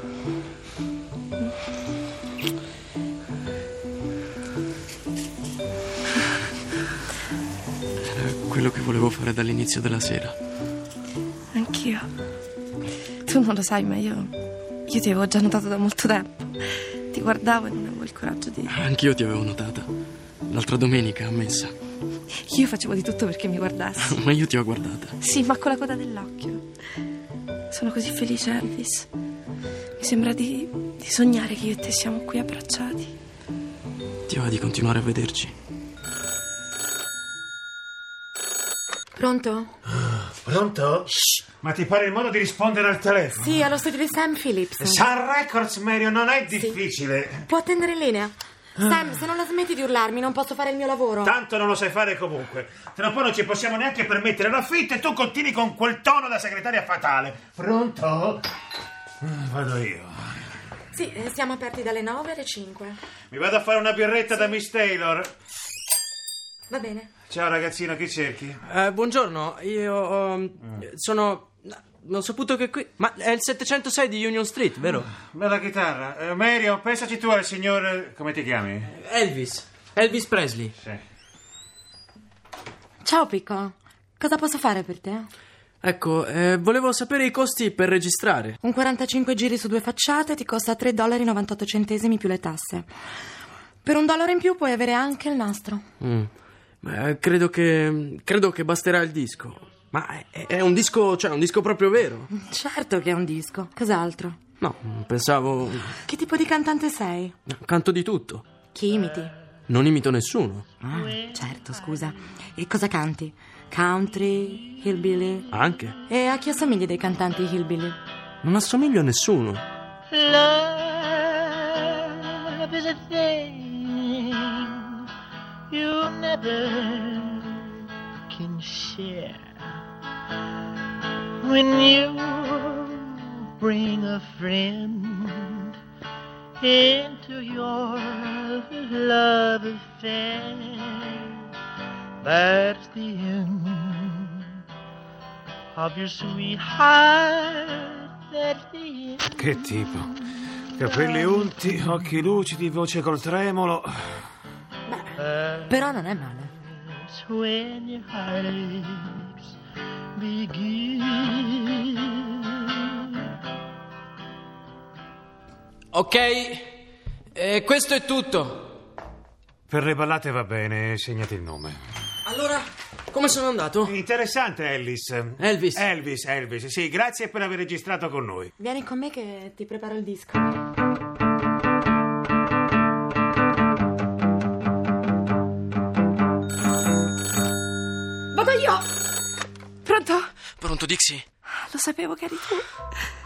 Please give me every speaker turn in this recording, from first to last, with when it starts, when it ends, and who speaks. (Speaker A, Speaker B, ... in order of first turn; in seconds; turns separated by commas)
Speaker A: 8.0-10.3, Speaker B: 11.5-12.1, Speaker B: 13.3-14.3, Speaker B: 14.9-18.8, Speaker A: 18.7-19.9, Speaker A: 20.5-21.7, Speaker B: 22.5-24.2, Speaker A: 24.0-25.1, Speaker B: 25.2-26.6, Speaker B: 27.7-29.1, Speaker B: 30.0-33.1, Speaker A: 34.3-35.5, Speaker C: 39.1-39.8, Speaker D: 40.1-41.1, Speaker D: 41.6-43.5, Speaker C: 43.4-45.0, Speaker D: 44.8-47.4, Speaker C: 46.5-46.8, Speaker C: 47.5-51.3, Speaker D: 51.2-58.5, Speaker D: 59.2-60.2, Speaker C: 60.9-63.0, Speaker D: 63.3-65.3, Speaker C: 66.7-67.1, Speaker D: 67.3-68.6, Speaker A: 68.7-75.1, Speaker D: 75.1-78.9, Speaker A: 78.9-80.7, Speaker C: 83.0-85.3, Speaker A: 85.8-88.6, Speaker C: 88.6-92.9, Speaker C: 93.8-95.8, Speaker A: 96.0-96.3, Speaker A: 96.8-102.3, Speaker C: 102.3-104.5, Speaker A: 104.6-106.0, Speaker C: 106.0-107.4, Speaker A: 107.5-108.5, Speaker C: 108.7-109.3, Speaker A: 109.7-110.7, Speaker C: 110.8-115.5, Speaker A: 115.5-116.0, Speaker C: 116.0-118.0, Speaker A: 118.4-119.6, Speaker E: 120.1-124.8, Speaker E: 125.7-127.7, Speaker E: 128.3-129.4, Speaker E: 131.4-135.6, Speaker E: 136.6-141.2, Speaker E: 142.2-144.2, Speaker E: 145.8-149.2, Speaker D: 149.3-150.1, Speaker D: 150.8-154.1, Speaker E: 155.3-155.7, Speaker C: 155.7-156.5, Speaker E: 157.2-159.3, Speaker E: 160.2-161.8, Speaker A: 165.9-166.8, Speaker A: 167.3-168.8, Speaker D: 169.7-171.8, Speaker A: 172.2-174.0, Speaker D: 173.9-178.5, Speaker A: 175.4-175.9, Speaker C: 178.6-180.6, Speaker C: 188.3-188.8, Speaker B: 189.8-190.3, Speaker A: 190.6-191.2, Speaker B: 191.6-192.7